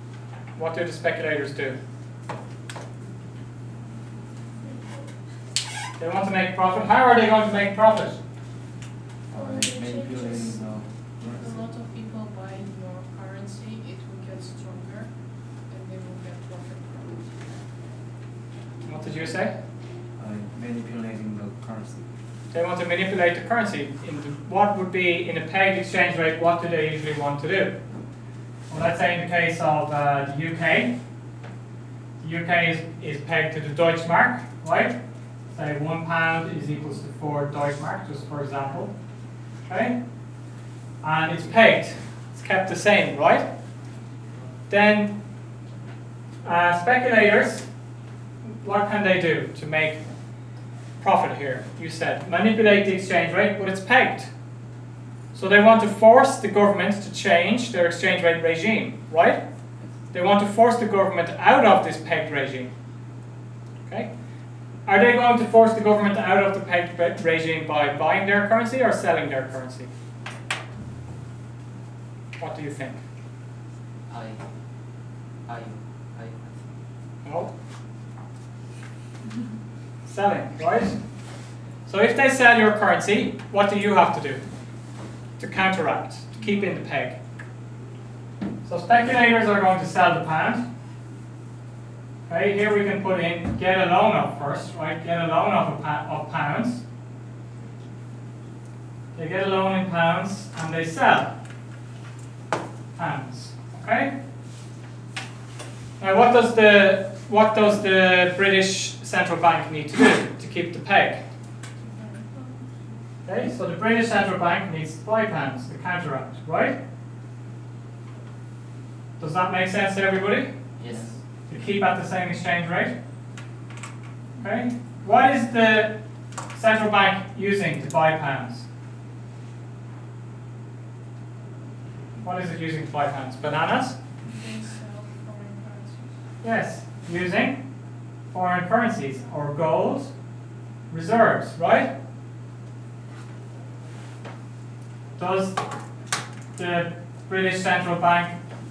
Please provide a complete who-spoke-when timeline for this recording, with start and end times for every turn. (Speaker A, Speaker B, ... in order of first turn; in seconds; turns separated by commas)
Speaker A: 0.6-1.8, Speaker A: 6.0-8.2, Speaker B: 9.3-11.6, Speaker C: 9.3-10.7, Speaker C: 11.2-17.6, Speaker A: 18.9-19.5, Speaker B: 20.2-22.1, Speaker A: 22.5-27.8, Speaker A: 28.7-30.9, Speaker A: 32.2-35.0, Speaker A: 35.5-38.9, Speaker A: 39.7-40.0, Speaker A: 41.0-43.5, Speaker A: 44.7-45.1, Speaker A: 46.4-47.7, Speaker A: 48.6-50.0, Speaker A: 51.0-54.3, Speaker A: 55.3-59.4, Speaker A: 60.1-62.7, Speaker A: 64.8-69.9, Speaker A: 72.4-73.0, Speaker D: 74.1-74.5, Speaker D: 75.4-76.7, Speaker A: 77.2-77.5, Speaker A: 80.0-81.0, Speaker A: 81.8-84.4, Speaker A: 85.4-87.2, Speaker A: 88.7-90.6, Speaker A: 92.3-96.8, Speaker A: 99.1-101.3, Speaker A: 103.0-104.1, Speaker A: 106.0-111.2, Speaker C: 111.8-112.9, Speaker A: 113.2-116.8, Speaker A: 119.2-120.5, Speaker D: 120.8-121.2, Speaker A: 121.5-122.9, Speaker A: 124.4-126.0, Speaker A: 126.5-128.7, Speaker A: 132.2-134.0, Speaker C: 134.3-136.2, Speaker A: 136.4-137.6, Speaker A: 138.3-140.1, Speaker A: 140.9-141.9, Speaker A: 145.2-145.6, Speaker A: 146.6-148.3